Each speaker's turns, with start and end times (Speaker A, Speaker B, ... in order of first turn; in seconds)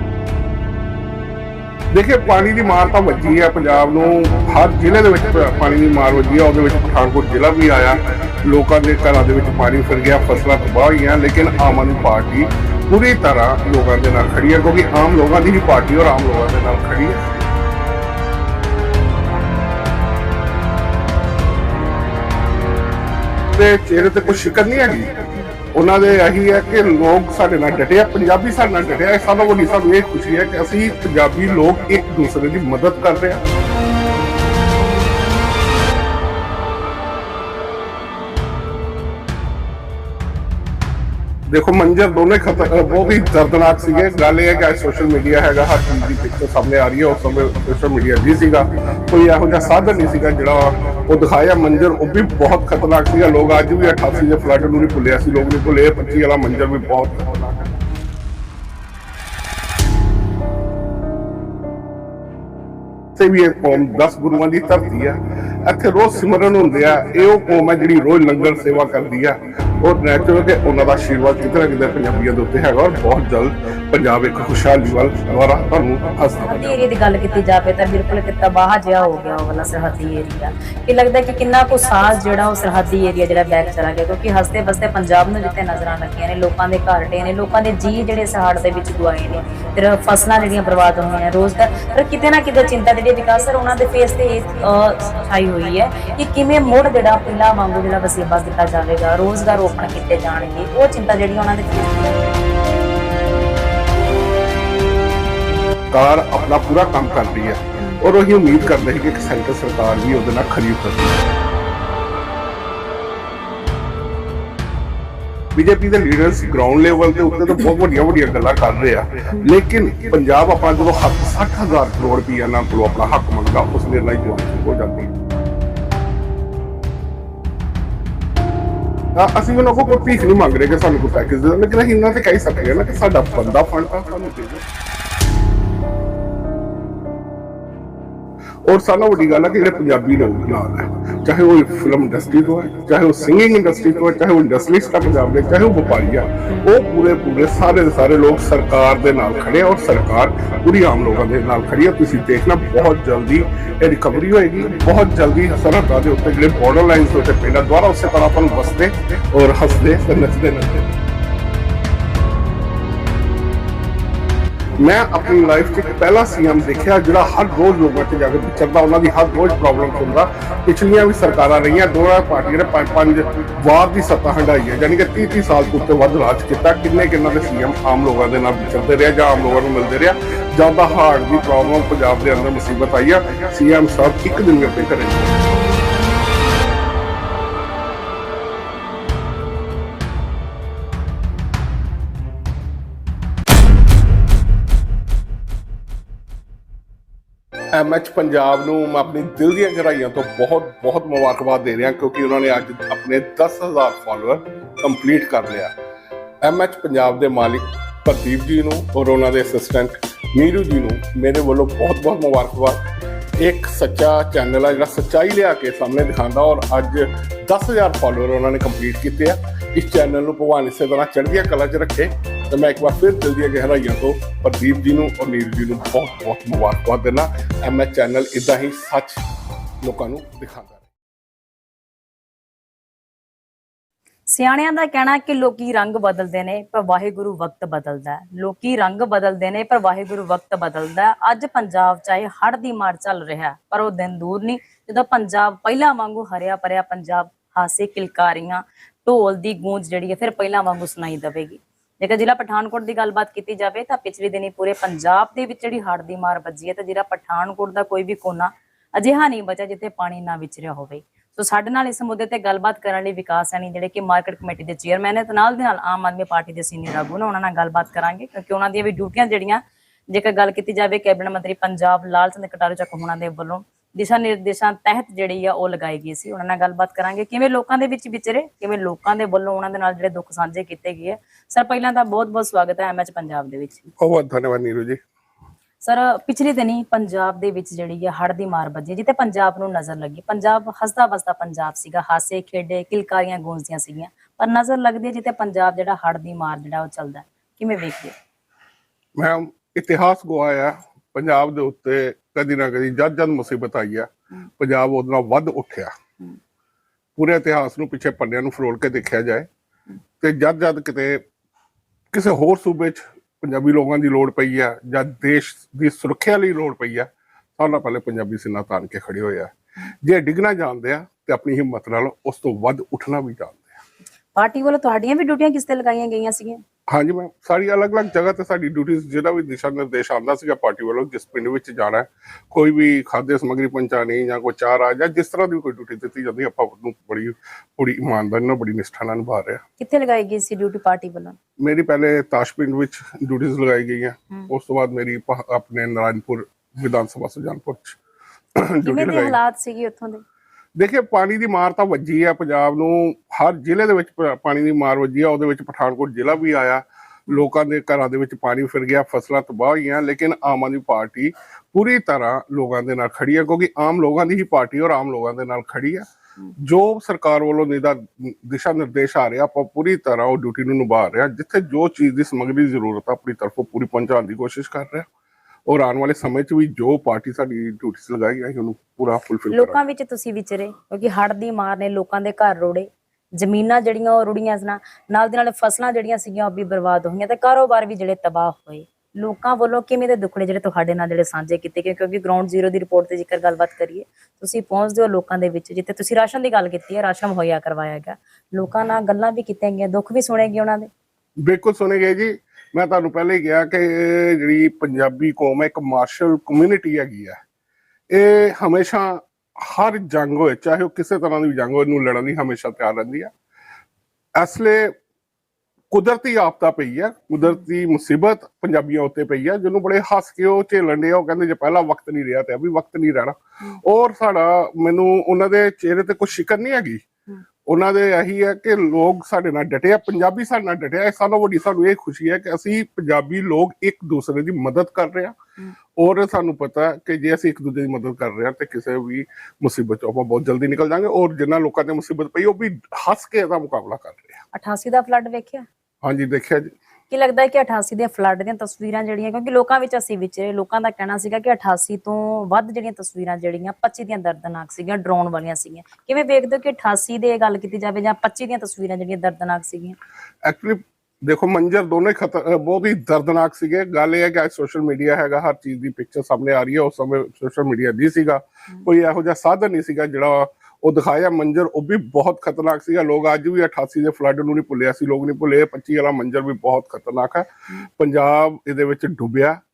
Speaker A: 1.9-17.4, 23.5-25.2, 25.7-33.4, 41.5-57.8, 63.2-76.8, 105.9-111.2, 115.5-125.2, 129.2-134.7, 138.7-161.0, 164.8-185.4, 197.7-205.7, 206.4-212.8, 213.4-229.2, 229.8-230.9, 284.0-285.0, 299.2-305.9, 307.2-309.5, 310.2-311.2, 312.1-323.8, 326.9-339.6, 341.6-348.0, 348.6-349.4, 350.8-366.1, 366.6-375.1, 375.7-379.8, 401.4-407.4, 408.1-413.3, 414.4-414.9, 415.9-427.1, 427.7-435.4, 436.0-444.4, 446.0-446.7, 460.4-479.6
Speaker B: 76.4-102.1, 234.3-283.9, 285.8-298.1, 324.4-326.6, 339.8-341.4, 348.8-350.2, 379.5-400.9, 444.5-445.7, 447.1-460.0